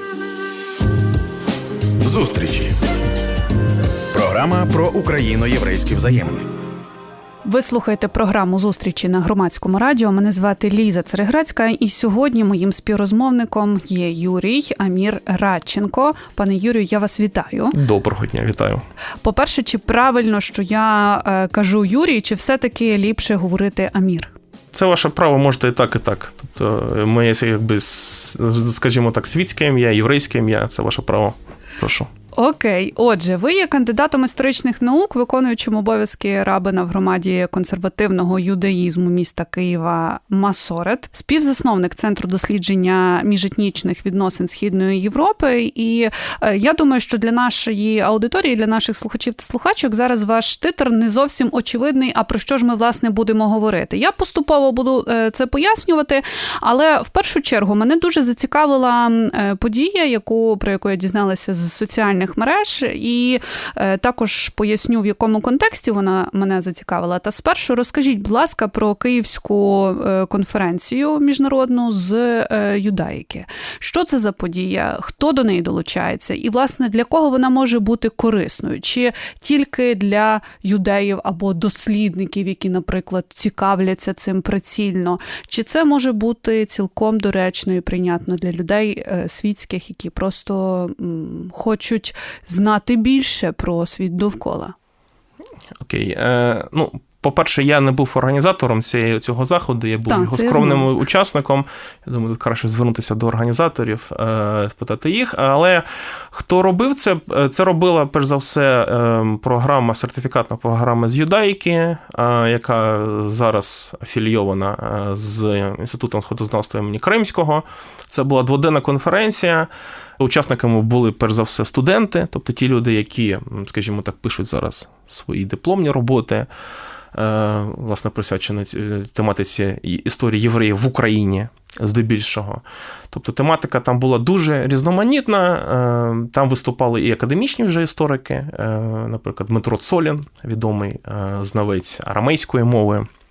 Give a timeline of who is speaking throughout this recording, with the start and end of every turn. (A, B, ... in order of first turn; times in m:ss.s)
0:02.0-0:02.7 A
0:04.1-0:06.5 A
0:07.4-0:17.8 B
0:17.7-0:18.8 C
0:19.2-0:24.3 B
0:24.7-0:32.1 C
0:32.3-1:34.7 B
1:35.8-2:06.5 C
1:40.1-1:40.9 B
2:07.1-2:23.1 C